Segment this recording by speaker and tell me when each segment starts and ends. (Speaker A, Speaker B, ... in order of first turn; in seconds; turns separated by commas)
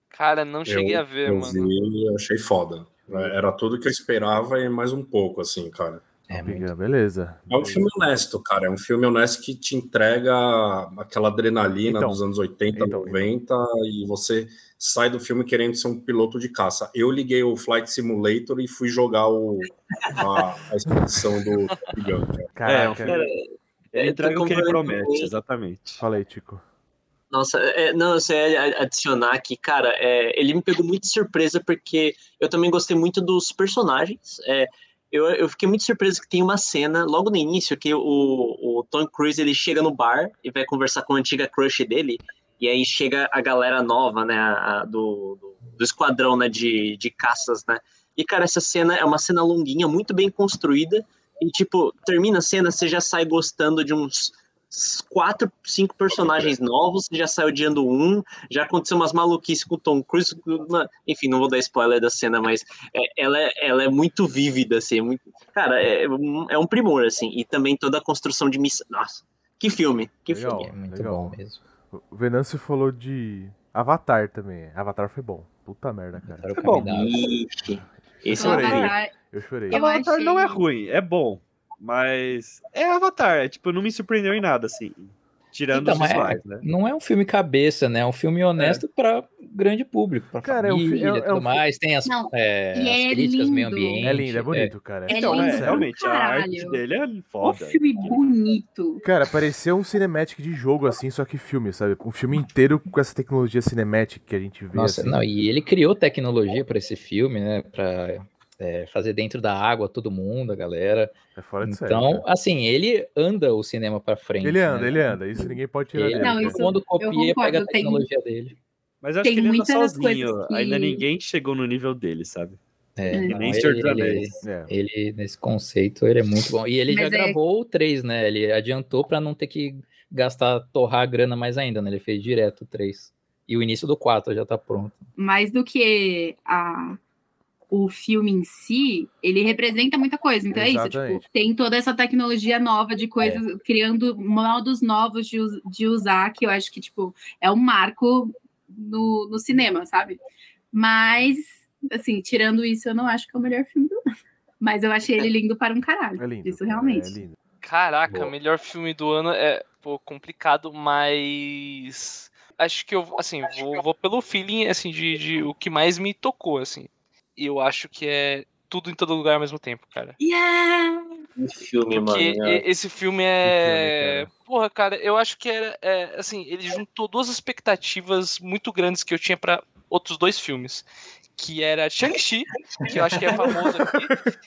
Speaker A: 0.1-1.7, Speaker B: 0.7-6.0, Speaker C: 6.3-6.7, Speaker D: 6.3-7.9, Speaker B: 7.5-22.6, Speaker D: 11.9-13.3, Speaker D: 22.6-23.2, Speaker E: 22.6-23.3, Speaker F: 23.1-25.3, Speaker E: 23.9-26.0, Speaker D: 26.0-26.6, Speaker F: 27.3-70.7, Speaker B: 56.1-56.5, Speaker D: 70.3-71.4, Speaker C: 70.5-71.6, Speaker D: 71.9-76.5, Speaker C: 76.2-77.2, Speaker E: 76.5-77.0, Speaker F: 76.8-78.9, Speaker D: 78.3-79.8, Speaker G: 78.4-79.1, Speaker E: 79.7-86.6, Speaker G: 79.7-80.6, Speaker C: 85.7-94.8, Speaker E: 88.6-88.8, Speaker D: 90.4-91.6, Speaker G: 92.1-94.1, Speaker D: 94.0-95.9, Speaker E: 95.1-98.2, Speaker G: 95.1-96.8, Speaker G: 97.4-99.0, Speaker D: 99.0-105.2, Speaker C: 104.7-118.6, Speaker D: 111.3-112.3, Speaker D: 114.4-116.6, Speaker G: 116.2-118.0, Speaker E: 119.0-122.6, Speaker G: 119.2-121.0, Speaker C: 123.0-135.1, Speaker G: 123.1-123.4, Speaker E: 123.2-124.4, Speaker D: 124.4-124.7, Speaker G: 126.9-127.4, Speaker G: 135.2-137.0, Speaker G: 137.7-150.2, Speaker D: 140.5-141.2, Speaker G: 150.7-154.0, Speaker G: 154.6-157.2, Speaker D: 156.2-157.4, Speaker A: 157.6-170.2, Speaker B: 158.1-158.3, Speaker G: 170.2-171.2, Speaker F: 171.4-172.6, Speaker A: 171.9-184.2, Speaker D: 173.4-174.3, Speaker F: 182.8-183.5